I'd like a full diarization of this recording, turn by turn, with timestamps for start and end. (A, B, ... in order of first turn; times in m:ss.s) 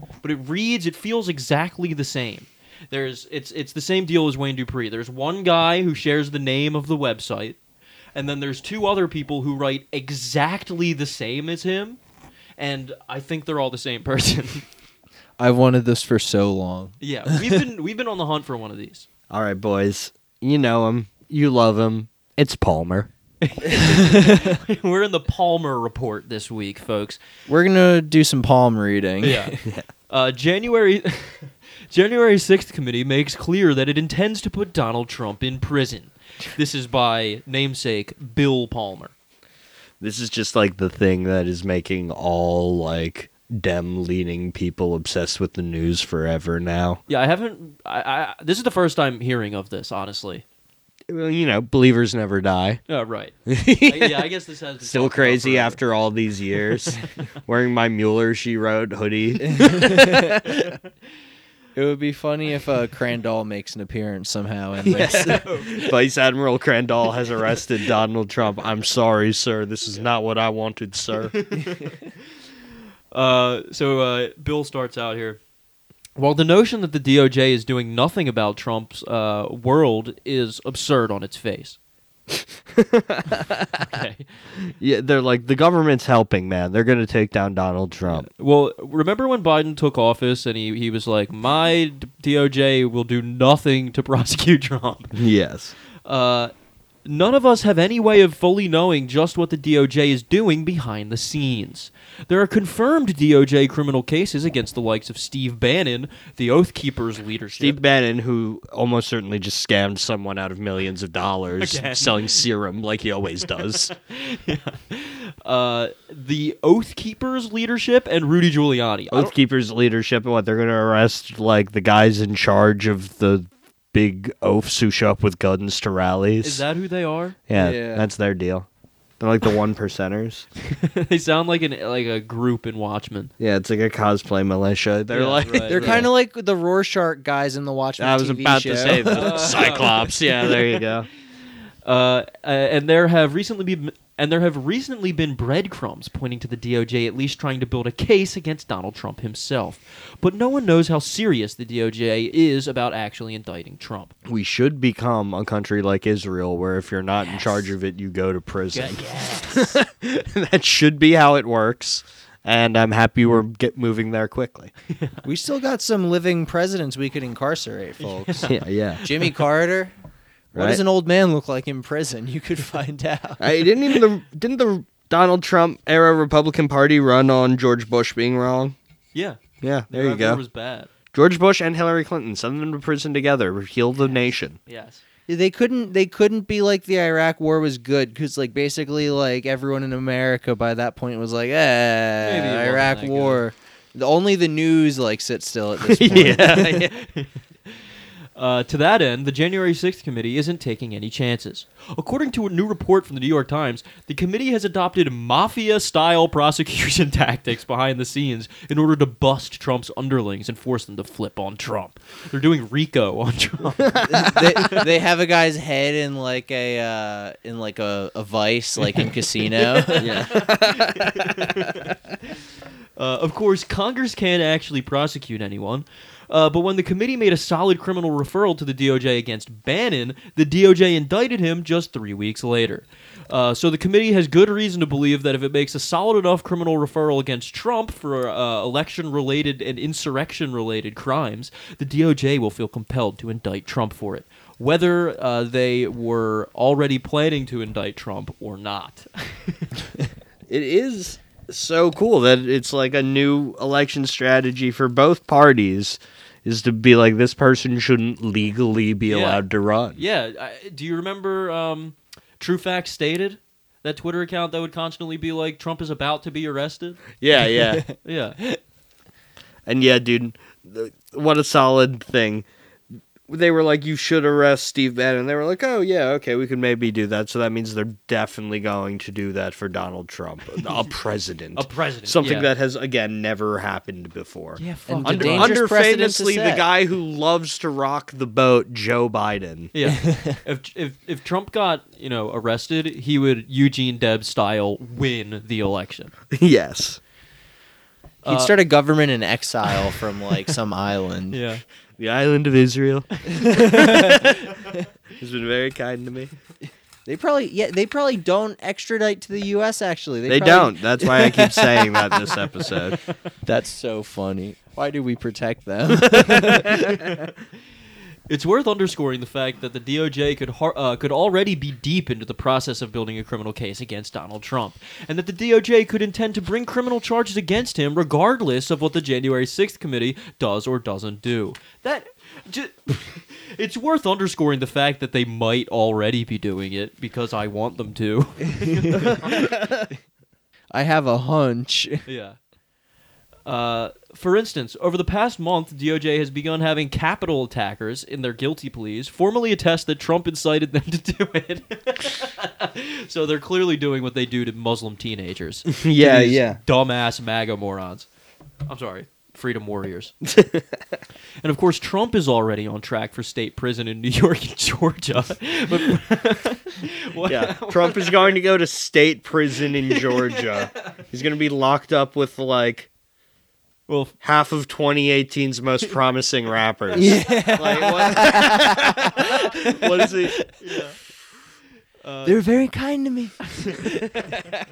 0:00.2-0:07.6 A
0:08.2-0:12.0 A
0:12.6-0:14.6 A
0:15.4-0:17.6 B
0:17.0-0:19.1 A
0:19.3-0:23.1 C
0:23.4-0:27.2 A
0:24.0-0:24.3 B
0:27.5-0:29.6 B
0:29.2-0:39.1 A
0:40.0-0:47.0 C
0:47.1-0:50.4 A
0:51.1-0:52.8 C
0:52.9-0:55.8 A
0:53.5-0:54.3 C
0:54.8-1:00.5 C
0:59.4-1:00.6 B
1:01.8-1:05.9 B
1:04.9-1:05.9 A
1:04.9-1:11.5 C
1:11.3-1:12.1 A
1:13.1-1:15.4 A
1:16.2-1:21.8 A
1:22.8-1:23.9 C
1:23.8-1:24.3 A
1:24.8-1:28.3 C
1:28.1-1:35.2 A
1:35.2-1:35.8 C
1:36.0-1:36.5 A
1:37.0-1:47.8 A
1:47.6-1:53.9 C
1:51.6-1:52.5 A
1:54.0-1:59.3 A
1:59.1-2:06.6 C
2:06.4-2:07.4 A
2:07.5-2:08.7 C
2:07.6-2:08.1 B
2:09.2-2:10.5 C
2:10.7-2:13.3 A
2:13.4-2:16.1 C
2:15.1-2:16.1 A
2:15.7-2:19.8 B
2:18.0-2:21.1 C
2:19.1-2:20.9 A
2:21.8-2:34.1 A
2:34.3-2:44.7 C
2:37.2-2:37.7 A
2:38.7-2:39.8 A
2:44.9-2:45.2 A
2:45.2-2:49.9 B
2:48.0-2:48.6 A
2:48.4-2:49.0 C
2:50.5-2:53.4 B
2:50.6-2:50.8 C
2:53.4-2:58.8 C
2:59.1-3:00.9 A
2:59.6-3:00.4 C
3:01.1-3:04.6 C
3:04.0-3:05.0 A
3:05.3-3:16.9 B
3:12.2-3:13.4 A
3:15.8-3:17.0 C
3:16.6-3:17.8 A
3:18.4-3:34.9 A
3:34.0-3:40.3 B
3:39.6-3:42.4 A
3:40.0-3:41.3 C
3:43.0-4:09.7 A
4:10.5-4:20.0 C
4:19.1-4:19.4 A
4:20.0-4:27.1 A
4:27.2-4:27.9 C
4:27.6-4:27.9 B
4:28.0-4:28.4 A
4:29.7-4:32.5 C
4:33.3-4:49.7 C
4:41.6-4:42.5 A
4:44.6-4:45.6 A
4:44.9-4:46.6 B
4:49.7-4:56.1 A
4:49.9-4:50.4 B
4:56.3-4:57.0 C
4:58.2-4:58.6 A
4:58.2-5:01.4 B
5:01.3-5:01.6 A
5:02.0-5:04.5 C
5:03.3-5:04.7 A
5:03.4-5:04.3 B
5:05.2-5:06.3 C
5:07.1-5:12.4 B
5:10.3-5:13.0 C
5:13.4-5:17.2 B
5:16.0-5:16.8 C
5:16.6-5:17.2 A
5:18.3-5:39.4 A
5:38.6-5:39.4 B
5:40.7-5:42.0 B
5:42.1-5:42.4 A
5:43.5-5:58.1 A
5:55.7-5:56.6 C
5:58.7-6:00.1 A
6:00.2-6:00.8 C
6:01.4-6:08.4 A
6:07.2-6:12.9 C
6:09.9-6:10.9 A
6:13.9-6:14.2 A
6:14.2-6:20.5 C
6:16.9-6:20.1 B
6:20.6-6:21.0 A
6:22.0-6:22.4 A
6:22.2-6:24.6 B
6:23.6-6:24.3 A